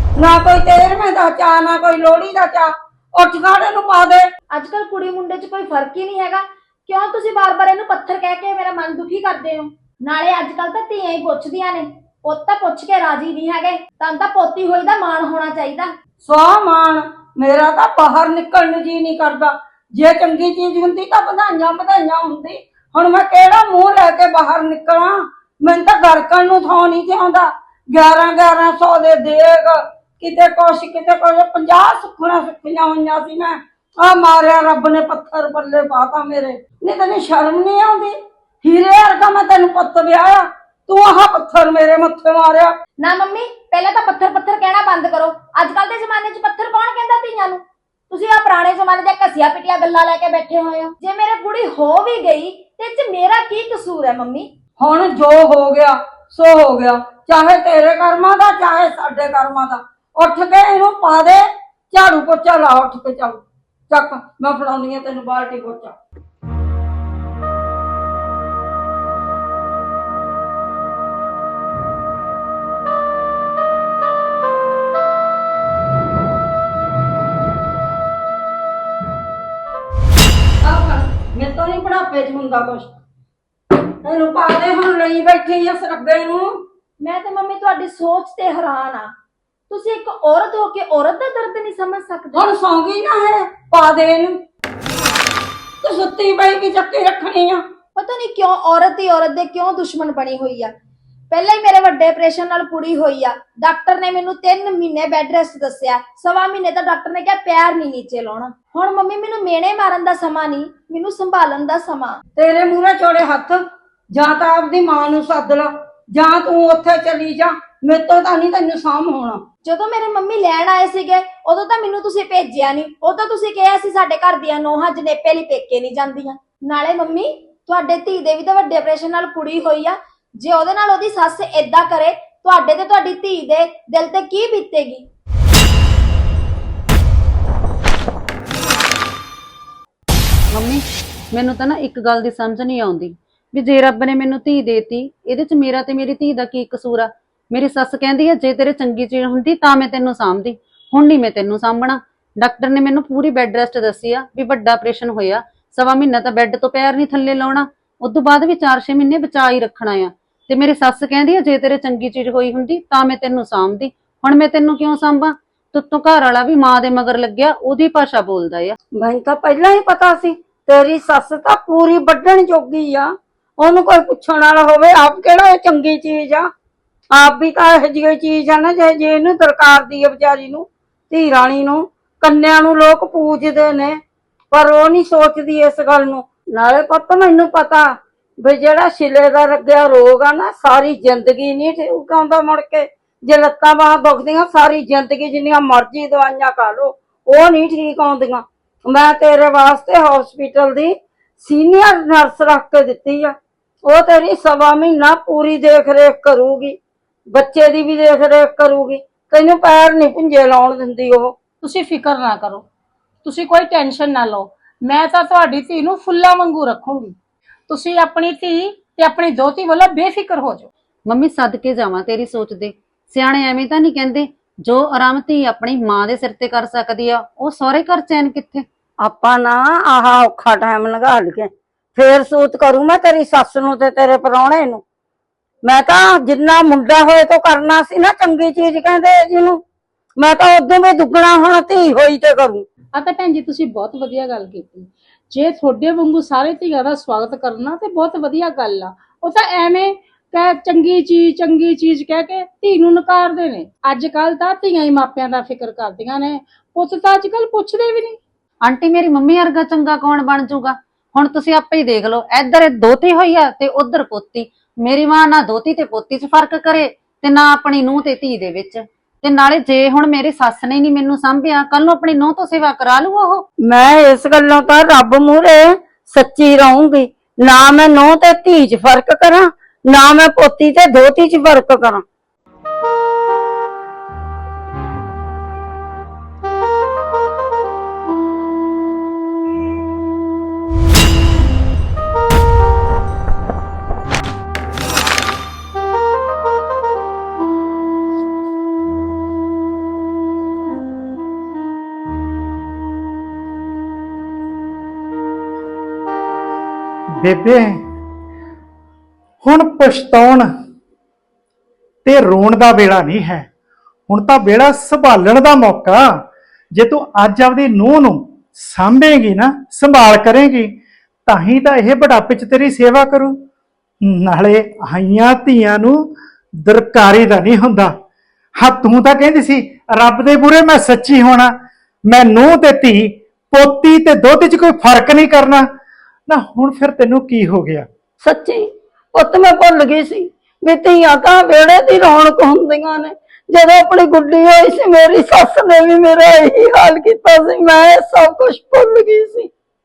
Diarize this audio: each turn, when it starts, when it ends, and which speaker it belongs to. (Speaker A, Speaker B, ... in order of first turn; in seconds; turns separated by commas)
Speaker A: 0.2-4.2, Speaker B: 4.5-15.9, Speaker A: 16.2-42.7, Speaker B: 43.0-54.5, Speaker A: 54.8-66.0, Speaker A: 80.6-82.9, Speaker A: 84.0-86.5, Speaker B: 87.0-89.1, Speaker B: 89.7-92.4, Speaker A: 92.3-94.4, Speaker A: 95.8-97.6, Speaker B: 98.0-100.7, Speaker B: 101.3-112.2, Speaker A: 112.3-119.4, Speaker B: 119.6-135.1, Speaker C: 140.5-168.7, Speaker A: 168.9-176.5, Speaker A: 177.1-184.0, Speaker A: 184.5-187.9, Speaker A: 188.4-206.8, Speaker A: 207.3-211.4, Speaker D: 211.6-212.6, Speaker D: 213.2-217.1, Speaker D: 217.7-220.7, Speaker C: 221.1-228.7, Speaker A: 229.0-234.8, Speaker A: 235.6-239.6, Speaker A: 240.2-242.7, Speaker D: 242.9-258.2, Speaker C: 258.6-273.4, Speaker A: 273.6-282.0, Speaker E: 307.2-307.8, Speaker E: 309.4-310.4, Speaker E: 312.0-313.5, Speaker E: 314.1-316.1, Speaker E: 316.7-320.7, Speaker E: 321.2-323.4, Speaker E: 324.0-326.1, Speaker E: 326.6-327.9, Speaker E: 328.6-331.5, Speaker E: 332.1-335.6, Speaker E: 336.3-337.9, Speaker A: 338.2-349.5